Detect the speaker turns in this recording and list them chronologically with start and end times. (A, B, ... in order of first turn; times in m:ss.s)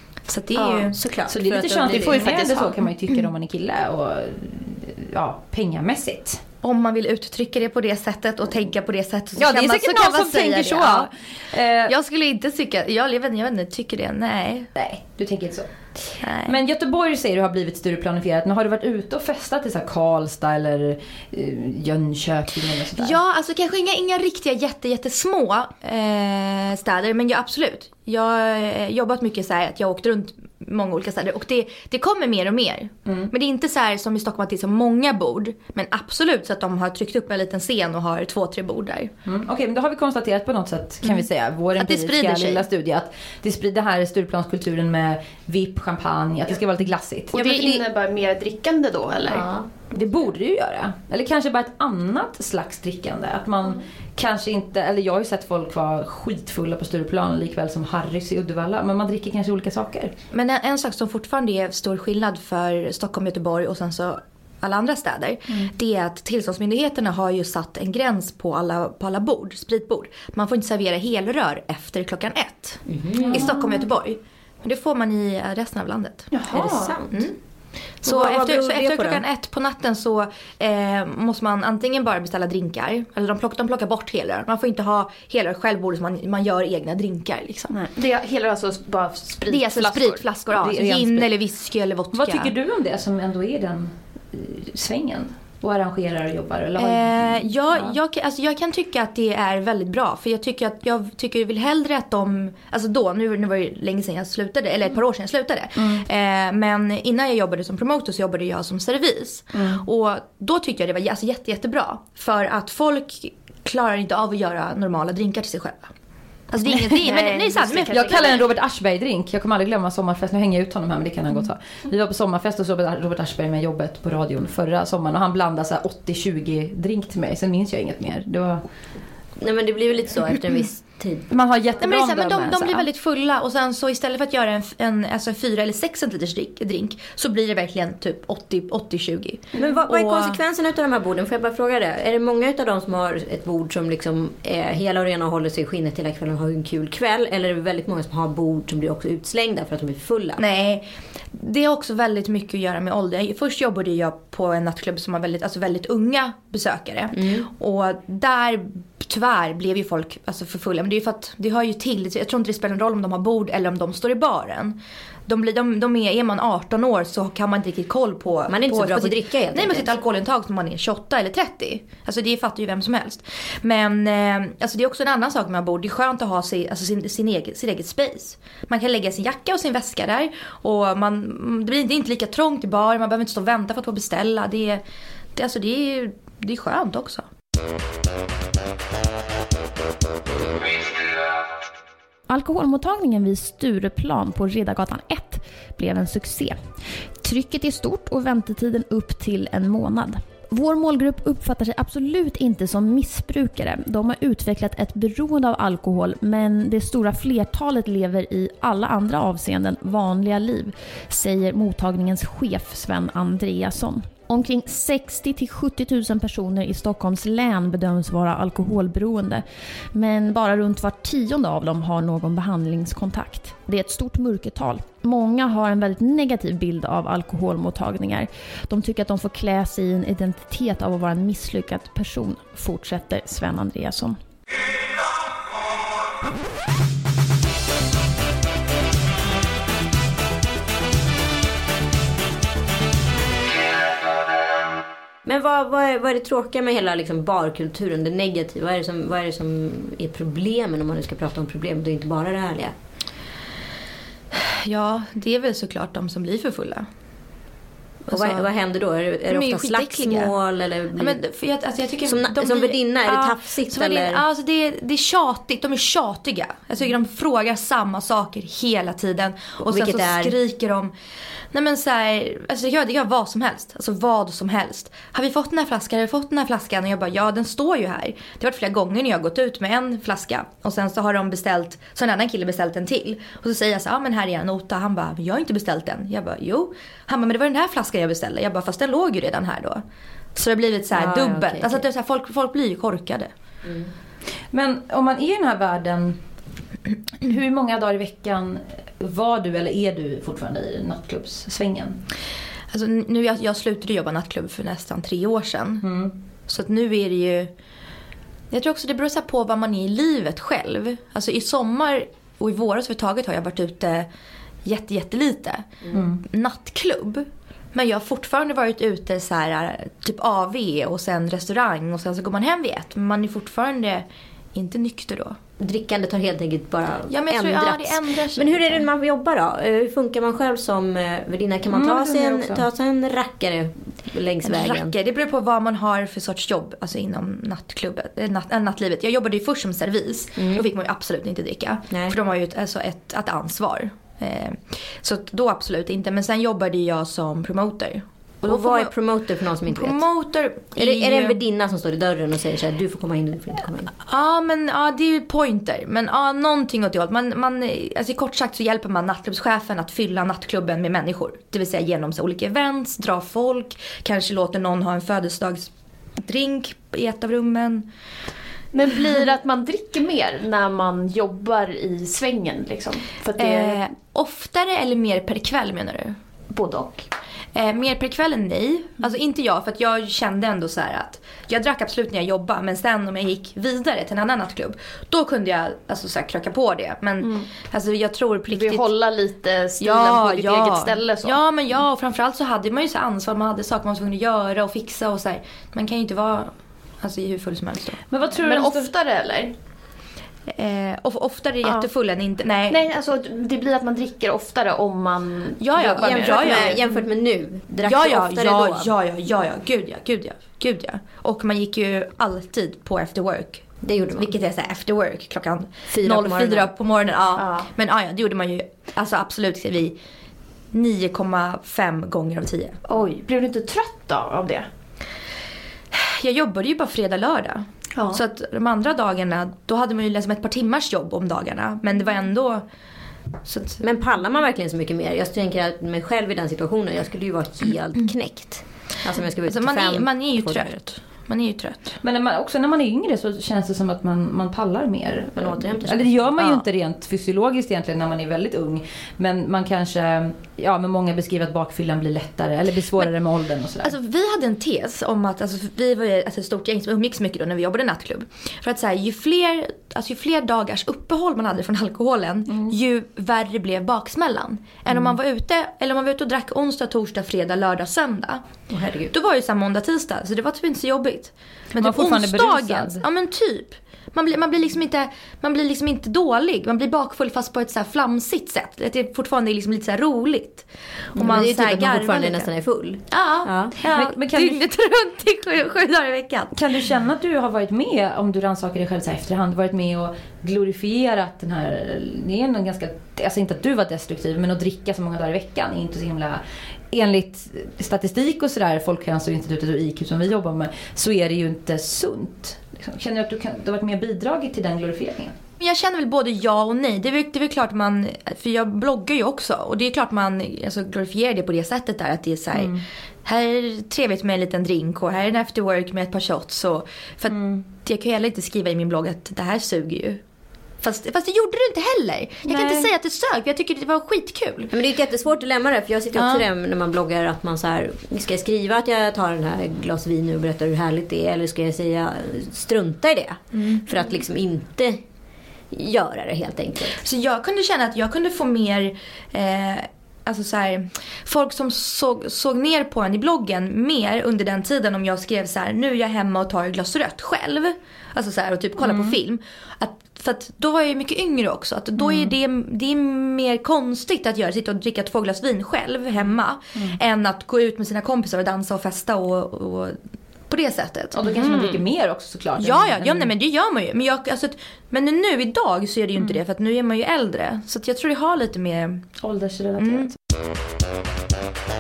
0:00.3-0:01.0 A
0:00.5-0:02.4 B
0:01.3-0:06.4 C
0:01.9-0:02.8 D
0:06.6-0:11.1 A
0:09.4-0:11.9 C
0:11.8-0:14.7 A
0:14.8-0:23.2 C
0:16.2-0:16.6 A
0:23.0-0:39.1 A
0:39.2-0:47.8 C
0:41.8-0:42.6 A
0:47.3-0:49.5 D
0:49.3-0:49.9 B
0:49.9-1:00.1 C
1:00.3-1:16.4 A
1:12.9-1:13.5 B
1:16.4-1:16.9 D
1:16.5-1:16.9 C
1:16.5-1:17.2 B
1:17.1-1:17.4 A
1:18.0-1:27.8 A
1:18.0-1:19.2 B
1:27.7-1:30.2 D
1:29.4-1:32.5 A
1:30.6-1:31.3 C
1:32.1-1:38.0 C
1:36.8-1:55.9 A
1:45.8-1:46.0 C
1:49.5-1:49.8 C
1:56.5-1:58.4 A
1:56.8-1:58.4 D
1:57.9-2:08.6 C
2:09.4-2:11.3 B
2:11.3-2:12.9 C
2:11.8-2:20.4 A
2:19.6-2:30.4 B
2:30.4-3:04.8 A
2:37.1-2:37.5 B
2:48.5-2:49.9 B
3:05.3-3:07.2 A
3:12.3-3:16.6 E
3:17.2-3:54.2 E
4:05.2-4:12.7 B
4:14.3-4:16.9 A
4:18.1-4:18.5 A
4:18.1-4:21.2 B
4:19.3-4:20.3 A
4:21.0-4:30.9 A
4:22.0-4:24.2 B
4:29.6-4:30.3 B
4:31.5-4:49.8 A
4:50.3-4:53.3 A
4:50.9-4:51.8 B
4:53.6-4:53.9 B
4:54.5-4:56.2 C
4:57.2-5:02.0 C
5:02.7-5:05.8 A
5:05.8-5:06.1 C
5:06.5-5:07.5 A
5:08.5-5:14.1 A
5:14.6-5:25.4 A
5:15.9-5:16.2 C
5:25.6-5:34.9 B
5:27.1-5:28.9 A
5:31.7-5:32.6 C
5:34.4-5:48.9 A
5:40.4-5:40.6 B
5:48.4-5:50.0 B
5:49.6-5:51.4 A
5:50.8-5:53.9 B
5:54.0-6:07.9 A
6:08.7-6:13.9 D
6:13.4-6:16.2 A
6:16.5-6:17.1 D
6:17.5-6:28.9 A
6:27.2-6:27.5 D
6:28.5-6:31.4 D
6:29.8-6:38.0 A
6:38.1-6:38.9 C
6:38.4-6:39.5 D
6:40.5-6:42.8 A
6:42.7-6:46.8 D
6:45.6-6:46.9 A
6:46.0-6:48.9 B
6:47.8-7:00.0 A
6:53.8-6:54.3 B
6:55.9-6:56.7 B
6:57.4-6:57.7 D
7:00.7-7:02.8 A
7:02.9-7:04.6 D
7:05.9-7:12.6 A
7:08.0-7:08.2 D
7:13.4-7:13.8 A
7:13.8-7:20.7 B
7:19.4-7:22.0 A
7:22.0-7:33.9 C
7:25.3-7:26.1 B
7:26.4-7:26.6 A
7:33.8-7:48.4 A
7:48.7-7:49.1 B
7:49.1-8:02.5 A
7:51.8-7:53.0 C
8:01.2-8:03.7 B
8:03.1-8:06.8 A
8:03.8-8:04.6 C
8:06.5-8:25.4 C
8:25.6-8:40.2 A
8:32.5-8:32.8 C
8:37.3-8:37.6 C
8:40.8-8:44.7 A
8:42.5-8:42.9 C
8:44.7-8:55.0 B
8:46.1-8:46.4 A
8:53.5-8:54.1 A
8:55.7-8:57.0 B
8:56.9-9:20.0 A
9:08.8-9:09.1 C
9:12.0-9:12.3 C
9:20.5-9:21.6 A
9:21.1-9:23.3 C
9:21.4-9:21.8 D
9:22.6-9:29.1 A
9:29.2-9:30.1 C
9:29.8-9:30.1 A